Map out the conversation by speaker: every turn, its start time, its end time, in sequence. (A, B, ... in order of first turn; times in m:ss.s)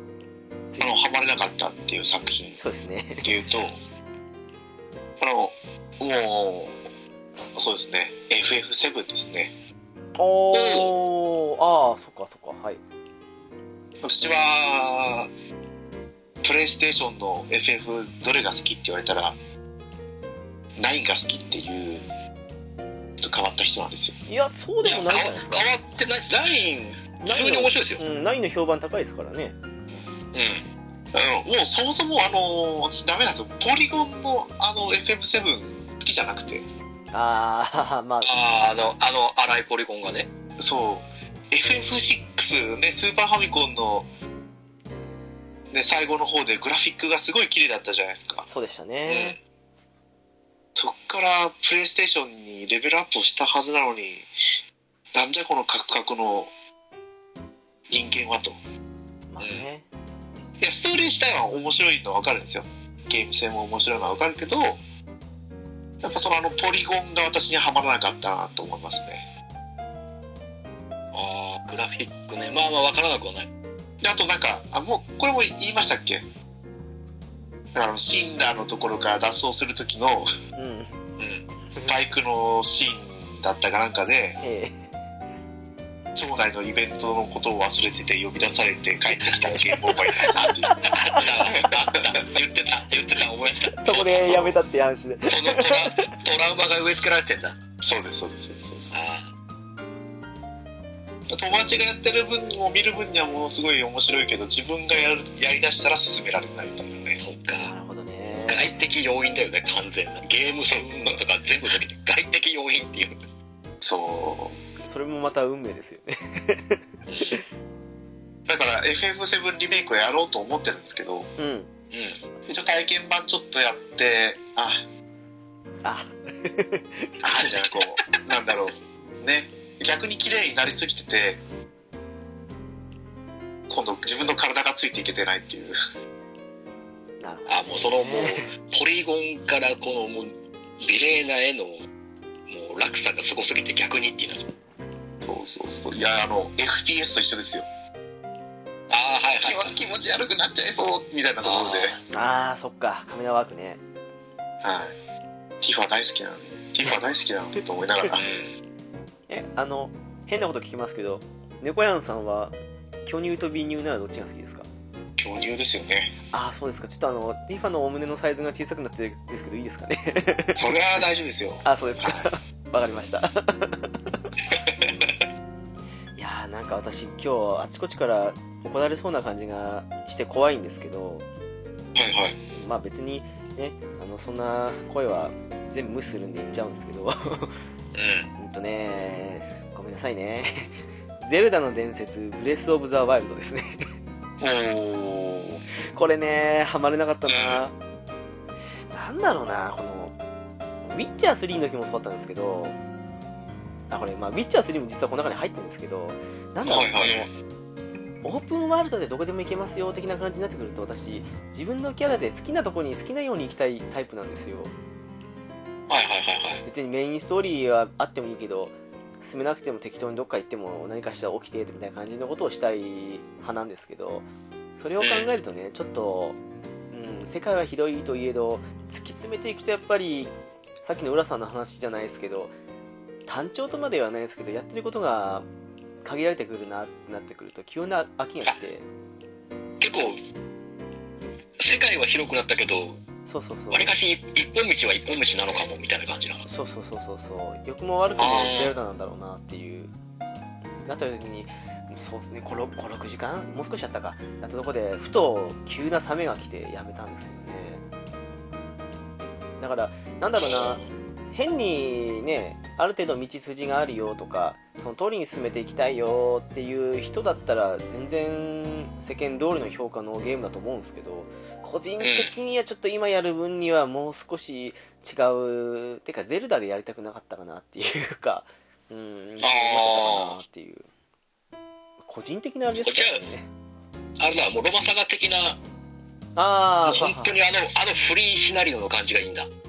0:00.7-0:01.0 A
0:00.8-0:02.6 B
0:02.6-0:03.3 A
0:03.2-0:03.8 B
0:05.2-0:06.8 B
0:07.6-0:09.5 B
0:10.2-0:12.8 A
0:10.5-0:10.9 C
0:14.0-0:15.3 B
0:16.4-0:19.4 B
0:20.8-0:22.1 B
0:23.2-0:24.2 B
0:24.3-0:25.7 A
0:24.8-0:28.0 C
0:27.2-0:29.6 A
0:30.3-0:30.7 C
0:31.1-0:36.6 B
0:37.1-0:38.3 A
0:38.2-0:40.3 C
0:40.6-0:44.1 B
0:45.7-0:48.4 B
0:48.4-0:49.4 A
0:49.1-0:49.4 C
0:50.8-0:54.3 B
0:55.1-0:56.5 B
0:57.9-0:58.6 B
0:59.3-0:59.8 A
0:59.4-0:59.7 C
1:00.6-1:04.8 B
1:06.0-1:09.2 B
1:11.1-1:13.5 C
1:14.0-1:16.2 B
1:17.7-1:20.3 B
1:20.6-1:21.0 A
1:21.2-1:21.4 C
1:21.8-1:24.4 B
1:24.4-1:24.8 A
1:26.2-1:30.8 B
1:29.5-1:31.7 A
1:30.8-1:34.6 C
1:31.6-1:32.2 B
1:33.8-1:36.1 A
1:35.3-1:37.6 C
1:37.8-1:38.9 B
1:38.9-1:39.3 C
1:41.3-1:47.2 B
1:47.2-1:47.7 C
1:47.6-1:48.8 A
1:48.5-1:53.2 C
1:50.6-1:51.2 B
1:53.8-1:54.6 B
1:54.8-1:57.4 A
1:57.1-1:57.4 C
1:58.5-2:01.3 B
2:01.4-2:01.7 A
2:01.9-2:02.2 C
2:02.5-2:04.8 B
2:05.8-2:07.5 A
2:07.2-2:11.4 B
2:13.7-2:15.8 B
2:17.2-2:18.5 A
2:17.5-2:21.9 C
2:22.5-2:24.5 C
2:25.2-2:27.7 B
2:28.9-2:29.8 C
2:29.4-2:32.0 B
2:31.4-2:32.0 C
2:32.1-2:33.8 A
2:34.6-2:35.0 B
2:35.6-2:38.2 B
2:38.1-2:38.6 C
2:39.3-2:44.7 A
2:45.2-2:46.1 B
2:46.3-2:50.6 A
2:50.6-2:52.3 B
2:51.6-2:54.2 A
2:54.5-2:55.2 B
2:56.2-3:01.3 A
3:02.0-3:02.4 B
3:02.5-3:07.6 A
3:07.9-3:08.3 C
3:08.4-3:13.9 A
3:14.4-3:15.6 B
3:15.9-3:17.8 A
3:17.3-3:17.6 C
3:18.9-3:20.2 A
3:20.8-3:22.8 A
3:23.9-3:27.3 A
3:26.7-3:27.2 B
3:28.2-3:34.7 A
3:35.9-3:36.6 C
3:36.6-3:44.3 A
3:44.8-3:46.4 A
3:45.0-3:45.3 C
3:46.9-3:52.5 A
3:53.3-3:55.5 A
3:56.0-3:58.8 A
3:59.8-4:00.2 C
4:01.6-4:03.0 C
4:03.3-4:03.9 A
4:03.7-4:06.5 C
4:06.5-4:09.9 A
4:08.2-4:08.8 C
4:10.9-4:17.8 A
4:19.6-4:20.8 A
4:20.4-4:20.9 C
4:21.3-4:40.9 A
4:32.0-4:32.3 C
4:39.4-4:40.4 C
4:42.0-4:43.5 A
4:42.8-4:43.2 C
4:44.2-4:45.6 C
4:46.4-4:47.3 A
4:46.8-4:49.5 C